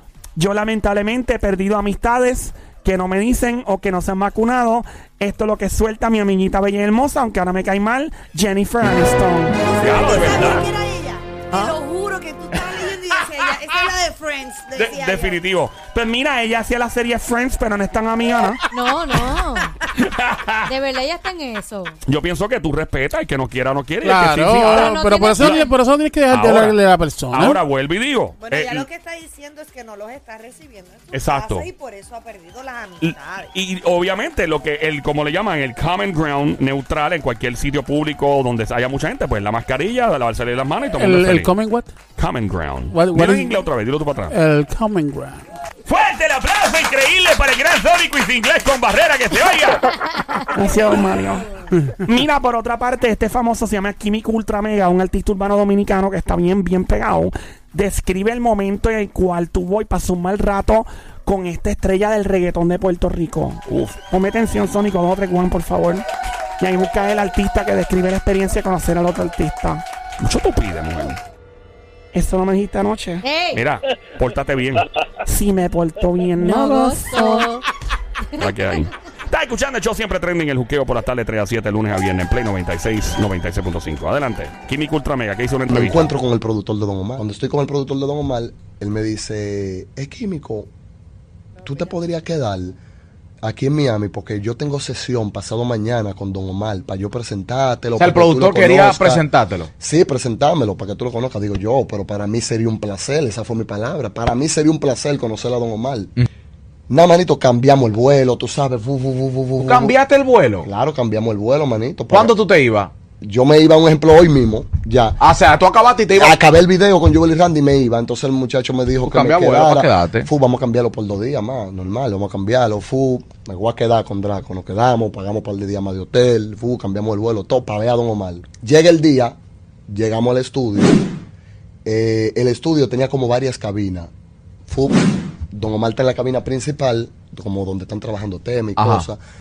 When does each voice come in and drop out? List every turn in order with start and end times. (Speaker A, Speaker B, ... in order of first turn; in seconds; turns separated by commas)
Speaker A: 0.4-9.6, Speaker B: 9.6-15.4, Speaker C: 9.8-10.7, Speaker A: 11.5-11.8, Speaker C: 14.8-15.9, Speaker A: 15.9-18.6, Speaker D: 18.7-19.7, Speaker C: 19.9-20.7, Speaker D: 20.7-22.0, Speaker C: 22.1-25.6, Speaker E: 24.0-27.6, Speaker D: 24.6-25.7, Speaker C: 26.3-26.8, Speaker C: 27.3-28.9, Speaker B: 28.4-33.5, Speaker C: 31.1-31.7, Speaker C: 33.0-41.5, Speaker E: 41.0-41.9, Speaker C: 42.2-44.3, Speaker E: 42.9-43.6, Speaker E: 44.3-45.4, Speaker C: 45.9-50.0, Speaker A: 50.5-66.0, Speaker B: 50.6-51.7, Speaker C: 63.7-64.0, Speaker A: 66.6-69.8, Speaker C: 70.2-71.2, Speaker A: 72.1-73.2, Speaker D: 73.2-73.6, Speaker C: 73.5-74.9, Speaker A: 75.2-77.5, Speaker D: 76.4-77.6, Speaker C: 78.4-86.1, Speaker F: 85.7-90.7, Speaker B: 91.6-91.9, Speaker F: 91.6-92.8, Speaker F: 93.4-99.2, Speaker G: 98.0-99.7, Speaker F: 99.8-106.1, Speaker F: 106.9-110.0, Speaker G: 109.6-110.7, Speaker F: 110.6-112.4, Speaker G: 112.1-112.9, Speaker F: 113.2-115.2, Speaker G: 115.2-116.4, Speaker F: 116.1-129.4, Speaker G: 119.0-120.3, Speaker F: 129.9-131.1, Speaker F: 131.8-134.1, Speaker F: 134.7-139.2, Speaker G: 138.8-139.1